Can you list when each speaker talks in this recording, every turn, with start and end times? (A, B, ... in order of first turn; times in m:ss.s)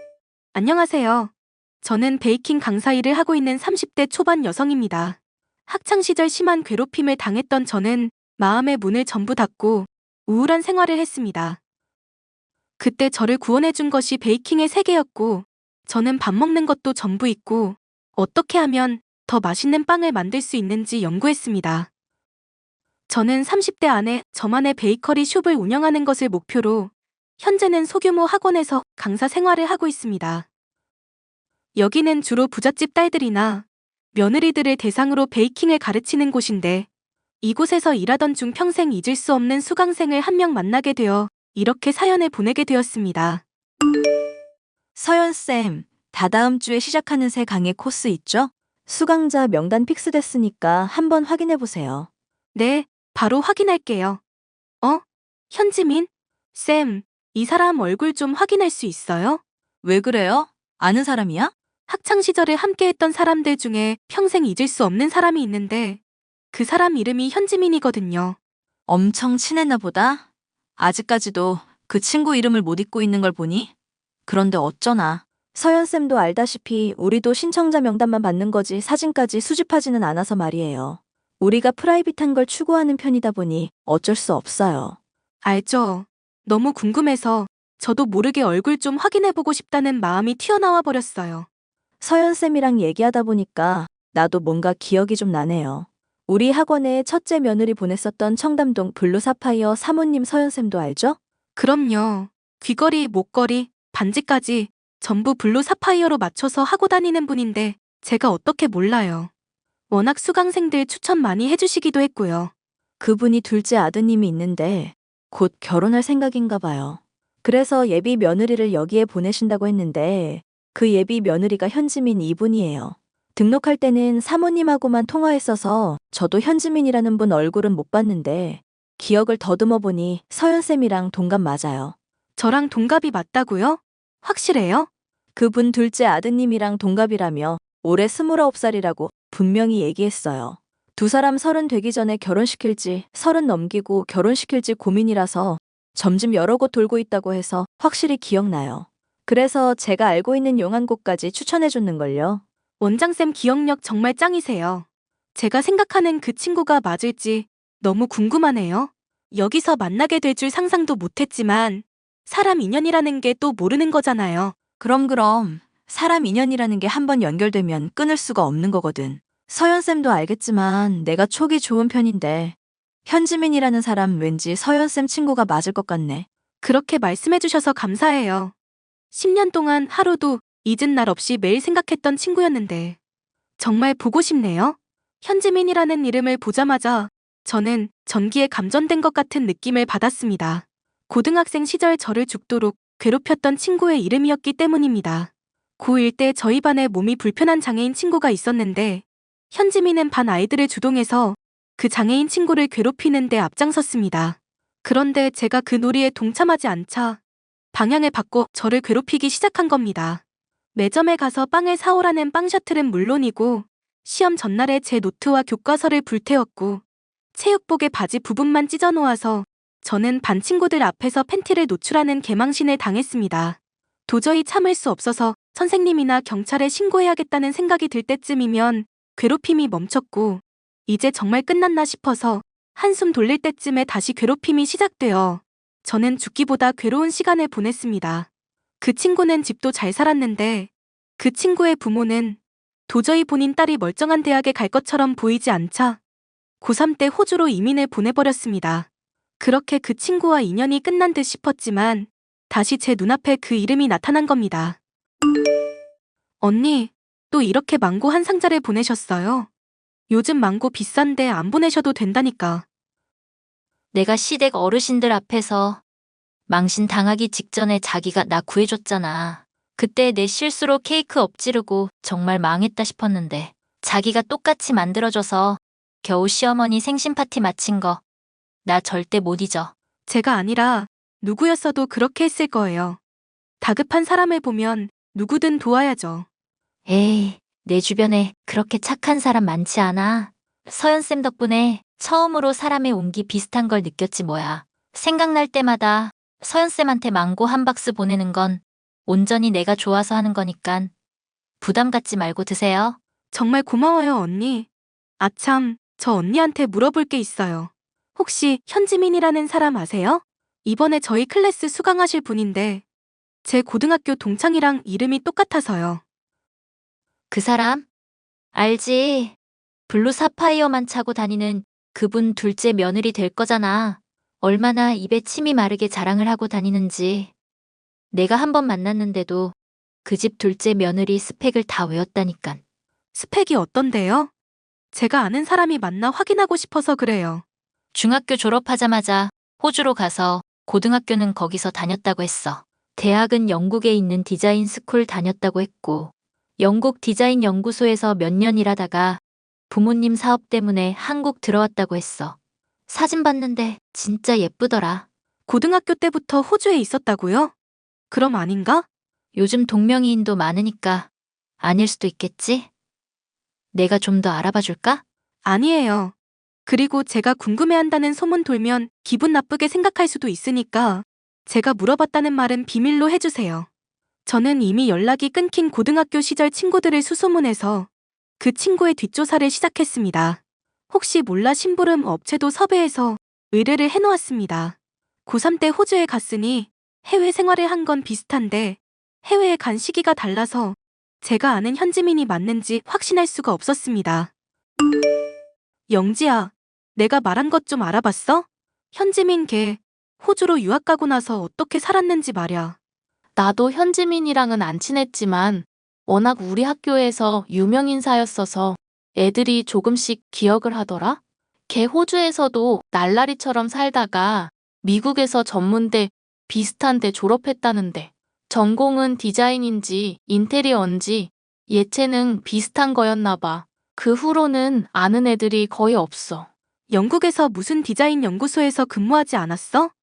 0:00.5-0:01.3 A
0:01.8-0:11.6 A
0:12.8-0:21.9 A
0:23.1-0:30.5 A
0:31.8-0:36.9 A
0:37.4-0:43.4 A
0:45.0-0:52.1 B
0:52.5-0:54.2 A
0:54.8-0:59.4 A
0:59.8-1:01.5 B
1:01.9-1:06.0 A
1:06.5-1:08.4 A
1:08.9-1:10.2 B
1:10.8-1:13.7 B
1:14.3-1:25.0 B
1:25.4-1:31.5 A
1:32.0-1:41.2 B
1:41.6-1:49.3 A
1:49.9-1:52.5 A
1:53.0-2:12.0 B
2:12.4-2:14.9 A
2:15.3-2:32.4 B
2:32.8-2:44.6 A
2:44.8-2:56.3 B
2:56.6-2:58.5 A
2:59.1-3:03.0 A
3:03.6-3:27.2 A
3:27.7-3:30.2 A
3:30.8-3:36.8 A
3:37.4-3:58.3 A
3:58.8-4:06.0 A
4:06.6-4:08.9 A
4:09.4-4:14.8 A
4:16.4-4:19.5 A
4:20.1-4:22.6 A
4:23.9-4:25.8 C
4:26.5-4:38.0 C
4:38.6-4:39.7 C
4:40.1-4:43.0 A
4:43.6-4:46.3 A
4:46.9-5:00.9 C
5:01.6-5:03.0 C
5:03.3-5:04.7 A
5:05.2-5:12.8 A
5:13.4-5:16.0 A
5:17.3-5:17.9 C
5:18.5-5:19.4 C
5:19.9-5:27.3 C
5:28.1-5:32.6 C
5:33.1-5:34.3 A
5:34.9-5:37.4 A
5:37.9-5:52.4 C
5:52.9-5:55.0 C
5:55.5-5:57.5 A
5:58.1-5:58.8 A
5:59.3-6:01.1 C
6:01.6-6:02.7 C
6:03.7-6:05.0 C
6:05.4-6:06.1 A
6:06.7-6:13.7 A
6:14.3-6:17.9 A
6:18.4-6:20.4 A
6:20.9-6:34.3 A
6:35.9-6:42.8 A
6:43.4-7:06.5 D
7:06.9-7:09.9 A